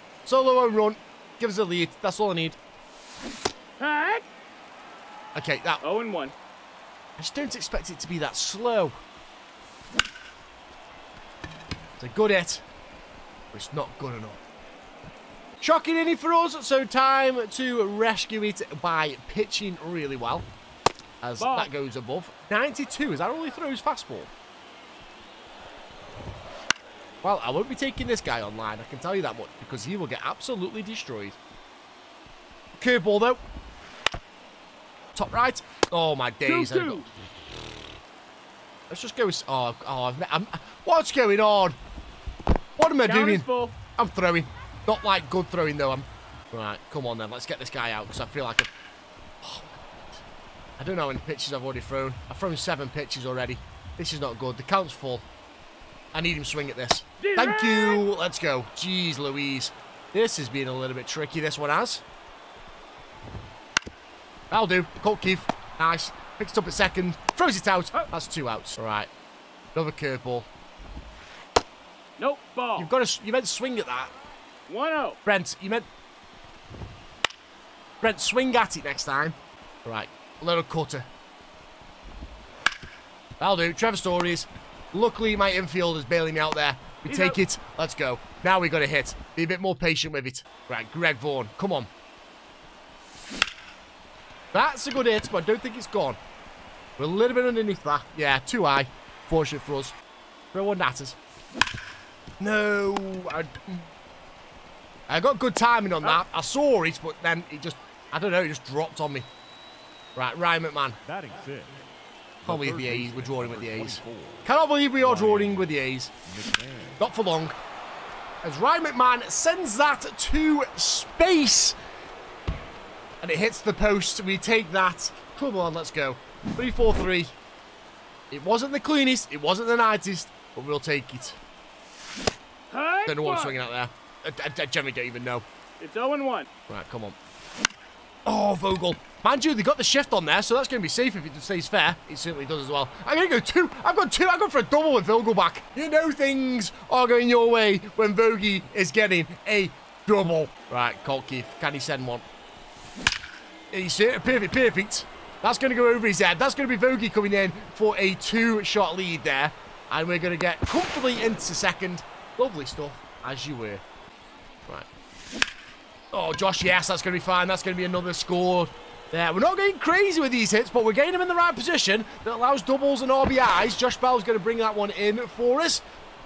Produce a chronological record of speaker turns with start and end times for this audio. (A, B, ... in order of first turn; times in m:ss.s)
0:00.2-0:02.6 A
0:03.8-0:04.3 B
0:05.4-0:05.8 A
0:05.8-0:06.4 B
0:07.2-0:09.0 A
0:12.0-0:12.6 A
0:13.5-0:14.4 A
0:15.6-0:20.5 A
0:21.2-0:24.3 A
0:21.4-0:21.7 B
0:27.2-0:31.4 A
0:32.8-0:33.4 A
0:35.2-0:37.1 A
0:36.4-0:37.1 B
0:38.9-0:41.8 A
0:42.8-0:48.7 A
0:43.0-0:43.8 B
0:49.4-0:50.2 A
0:50.8-0:55.3 A
0:56.1-1:02.0 A
0:57.2-0:58.0 B
1:04.5-1:09.1 A
1:09.8-1:10.5 A
1:12.2-1:12.9 B
1:12.8-1:14.1 A
1:14.7-1:15.2 B
1:15.3-1:15.9 A
1:18.0-1:21.1 A
1:23.4-1:31.9 A
1:27.1-1:27.4 B
1:34.5-1:36.2 A
1:37.0-1:40.0 A
1:40.5-1:41.2 A
1:42.4-1:43.9 A
1:45.1-1:49.3 A
1:50.2-1:51.0 A
1:51.0-1:51.8 C
1:52.4-1:54.5 C
1:52.4-1:56.1 A
1:55.0-1:55.7 C
1:56.3-1:57.0 C
1:57.0-1:57.6 A
1:58.4-2:01.8 A
2:03.2-2:07.3 A
2:08.3-2:11.4 A
2:12.7-2:13.6 B
2:13.1-2:15.5 A
2:15.8-2:16.5 B
2:16.7-2:17.2 A
2:18.3-2:32.3 A
2:33.7-2:43.8 A
2:46.1-2:55.8 A